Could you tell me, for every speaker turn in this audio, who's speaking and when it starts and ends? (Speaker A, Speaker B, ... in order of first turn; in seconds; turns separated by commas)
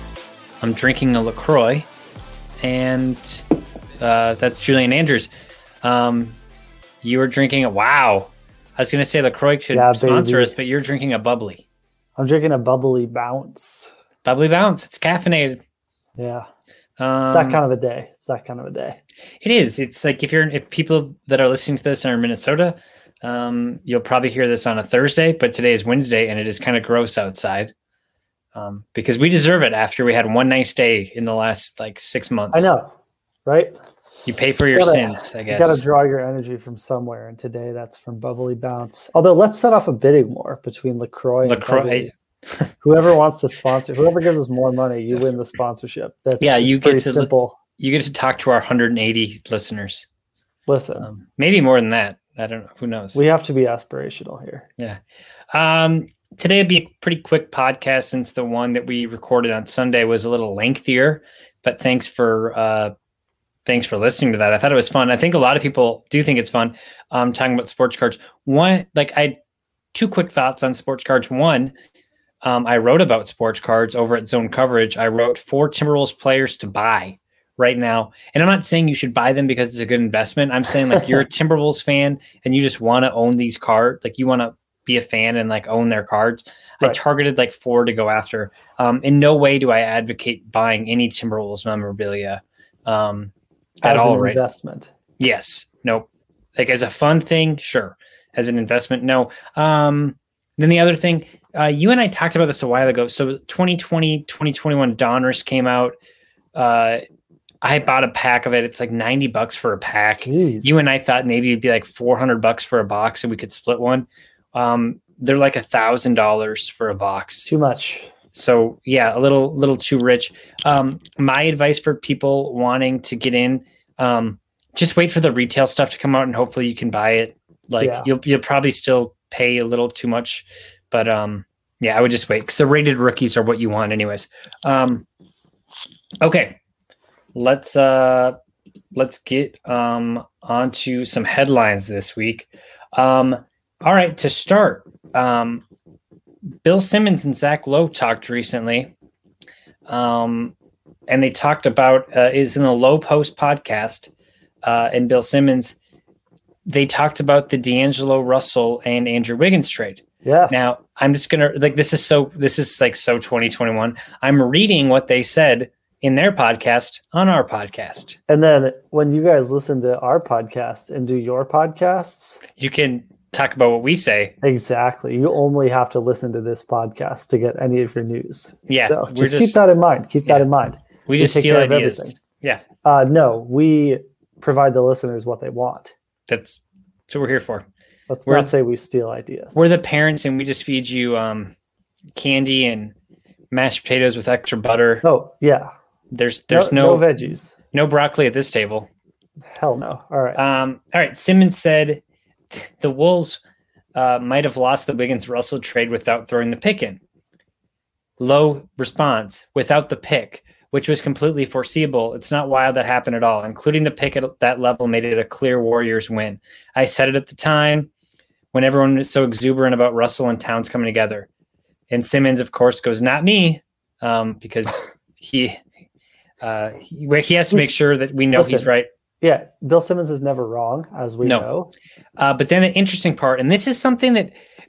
Speaker A: 0.6-1.9, Speaker A: 2.6-3.4, Speaker A: 4.0-5.3, Speaker A: 5.8-6.4, Speaker A: 7.0-11.6, Speaker B: 9.7-10.6, Speaker B: 12.2-13.9, Speaker A: 14.2-15.6, Speaker B: 16.2-16.5, Speaker A: 17.0-17.6, Speaker B: 17.3-19.0, Speaker A: 19.4-27.7, Speaker A: 28.6-32.7, Speaker B: 32.5-32.9, Speaker B: 33.5-33.7, Speaker A: 34.3-35.9, Speaker B: 34.7-42.1, Speaker A: 41.4-42.7, Speaker B: 42.8-47.6, Speaker A: 46.4-50.1, Speaker B: 50.7-51.1, Speaker A: 51.0-53.2, Speaker B: 53.1-54.7, Speaker A: 55.5-62.9, Speaker A: 63.7-69.4, Speaker A: 70.0-71.7, Speaker A: 72.4-94.4, Speaker B: 93.8-94.9, Speaker A: 95.2-106.0, Speaker A: 106.5-107.0, Speaker A: 107.6-117.5, Speaker B: 110.2-110.8, Speaker B: 117.5-118.1, Speaker A: 118.3-135.1, Speaker B: 127.8-128.1, Speaker A: 136.2-136.6, Speaker A: 137.3-138.4, Speaker A: 138.9-145.6, Speaker A: 146.6-148.9, Speaker A: 149.9-150.5, Speaker A: 151.1-154.1, Speaker A: 154.6-155.8, Speaker A: 156.7-168.2, Speaker B: 160.2-160.8, Speaker B: 168.3-172.4, Speaker A: 172.6-174.3, Speaker B: 174.4-182.2, Speaker A: 178.7-179.6, Speaker A: 181.1-182.6, Speaker B: 182.8-185.9, Speaker A: 186.3-187.7, Speaker B: 188.1-189.7, Speaker A: 188.3-188.5, Speaker A: 189.6-191.5, Speaker A: 192.2-192.9, Speaker A: 193.5-195.0, Speaker B: 195.0-195.7, Speaker A: 196.1-197.2, Speaker B: 196.5-197.6, Speaker A: 197.7-198.9, Speaker B: 199.5-200.4, Speaker A: 200.4-203.4, Speaker A: 203.9-207.0, Speaker A: 208.2-217.9, Speaker A: 218.5-221.3, Speaker A: 221.9-225.6, Speaker A: 226.4-228.9, Speaker B: 228.3-231.7, Speaker A: 232.2-234.4